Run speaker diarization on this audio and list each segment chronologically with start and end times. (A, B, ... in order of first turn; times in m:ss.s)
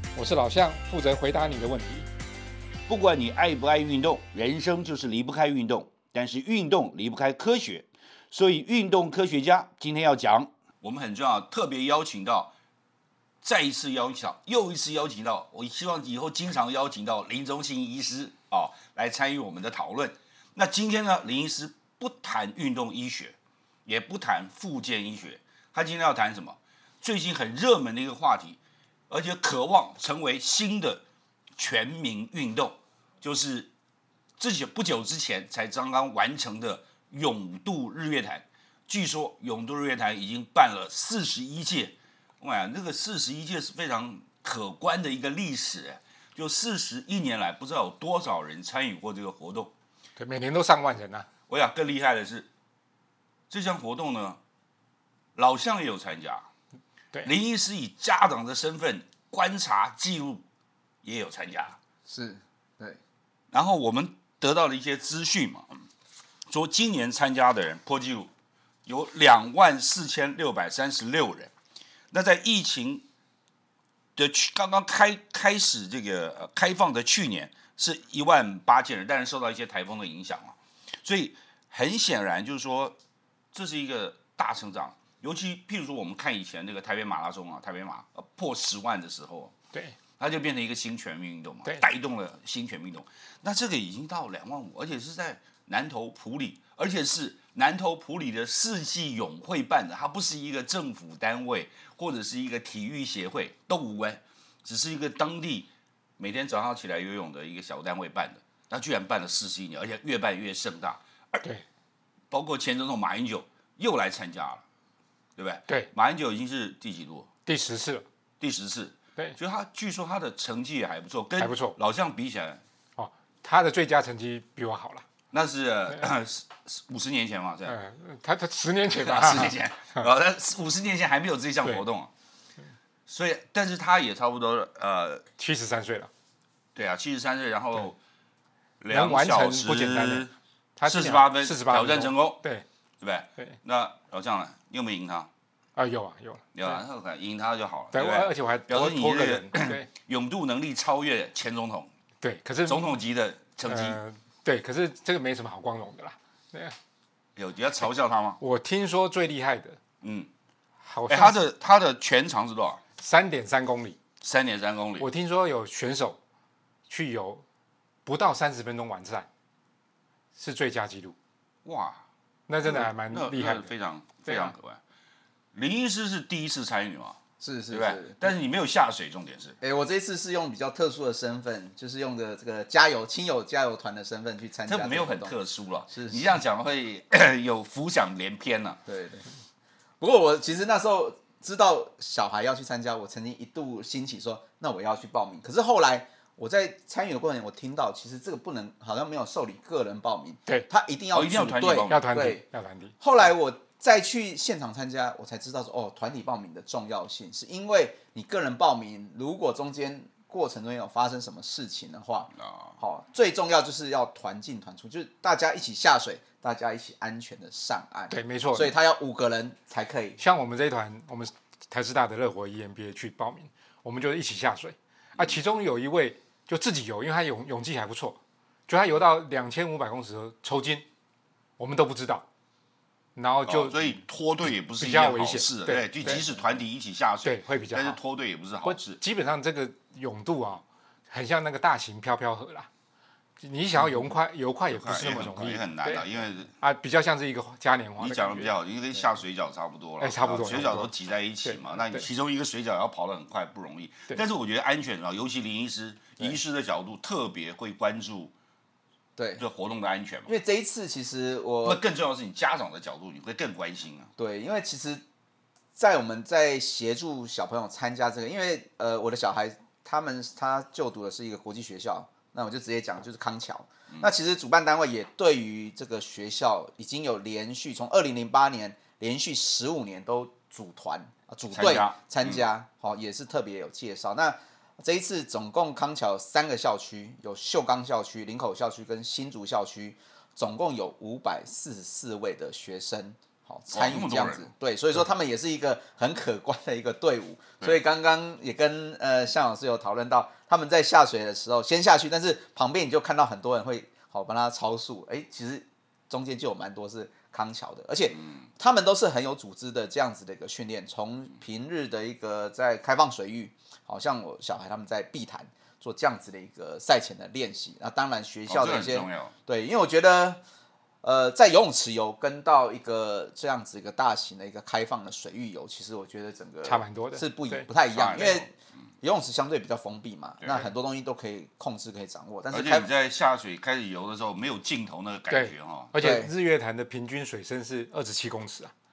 0:00.1-0:02.1 A
0:02.9-0:12.5 B
0:13.4-0:28.6 B
0:29.1-0:31.0 B
0:31.6-0:33.7 B
0:34.4-0:49.7 B
0:50.2-0:51.3 A
0:51.5-0:52.5 B
0:53.5-0:54.4 B
0:55.4-0:56.5 B
0:57.2-1:00.4 B
1:01.0-1:01.8 B
1:02.1-1:03.0 C
1:03.5-1:05.7 B
1:06.5-1:08.3 B
1:08.8-1:11.5 B
1:12.1-1:13.0 B
1:14.2-1:23.0 B
1:23.5-1:29.5 B
1:30.2-1:51.4 B
1:52.3-1:54.6 B
1:55.4-1:57.3 B
1:57.4-1:58.0 A
1:58.4-2:02.6 B
2:01.4-2:01.8 A
2:03.0-2:05.0 A
2:05.3-2:07.8 B
2:07.6-2:10.0 A
2:08.9-2:12.1 B
2:13.1-2:15.2 B
2:15.4-2:16.1 A
2:16.8-2:18.0 B
2:18.8-2:20.3 B
2:18.9-2:22.6 A
2:20.8-2:22.4 B
2:23.0-2:25.3 B
2:25.8-2:26.8 A
2:26.5-2:31.9 B
2:27.9-2:29.9 A
2:32.2-2:32.9 A
2:32.7-2:34.0 B
2:33.6-2:36.7 A
2:37.4-2:38.4 B
2:38.4-2:39.8 A
2:40.0-2:40.3 B
2:40.8-2:41.4 A
2:41.1-2:42.8 B
2:43.0-2:44.0 A
2:44.2-2:45.1 B
2:45.0-2:46.2 A
2:46.9-2:47.4 A
2:48.0-2:49.3 A
2:50.3-2:51.2 A
2:51.6-2:52.0 B
2:52.5-2:53.7 A
2:52.6-2:54.8 B
2:54.2-2:54.5 A
2:55.5-2:57.2 B
2:57.4-2:58.4 C
2:57.7-2:59.6 B
2:59.6-3:05.4 C
3:04.6-3:08.8 B
3:05.9-3:06.4 C
3:08.8-3:09.3 C
3:10.0-3:22.5 C
3:21.1-3:22.1 B
3:21.9-3:23.0 A
3:23.0-3:40.2 C
3:38.1-3:38.7 A
3:40.2-3:50.8 A
3:51.6-3:52.2 A
3:53.2-3:54.0 A
3:53.5-3:59.0 B
3:54.6-3:56.3 A
3:57.2-3:58.0 A
3:58.6-4:02.7 A
4:03.4-4:06.1 A
4:03.8-4:04.1 B
4:04.7-4:06.5 B
4:06.6-4:08.5 A
4:08.0-4:18.3 B
4:10.0-4:10.9 A
4:11.4-4:12.1 A
4:19.2-4:19.4 C
4:19.4-4:20.3 B
4:20.2-4:21.8 C
4:21.6-4:24.1 B
4:24.2-4:25.0 C
4:25.8-5:20.4 C
4:41.5-4:42.4 B
4:53.7-4:54.5 B
5:18.5-5:19.3 B
5:21.0-5:32.9 C
5:26.6-5:27.7 A
5:27.9-5:28.4 B
5:30.4-5:30.7 B
5:32.5-5:35.9 B
5:35.3-5:38.7 A
5:36.0-5:36.3 C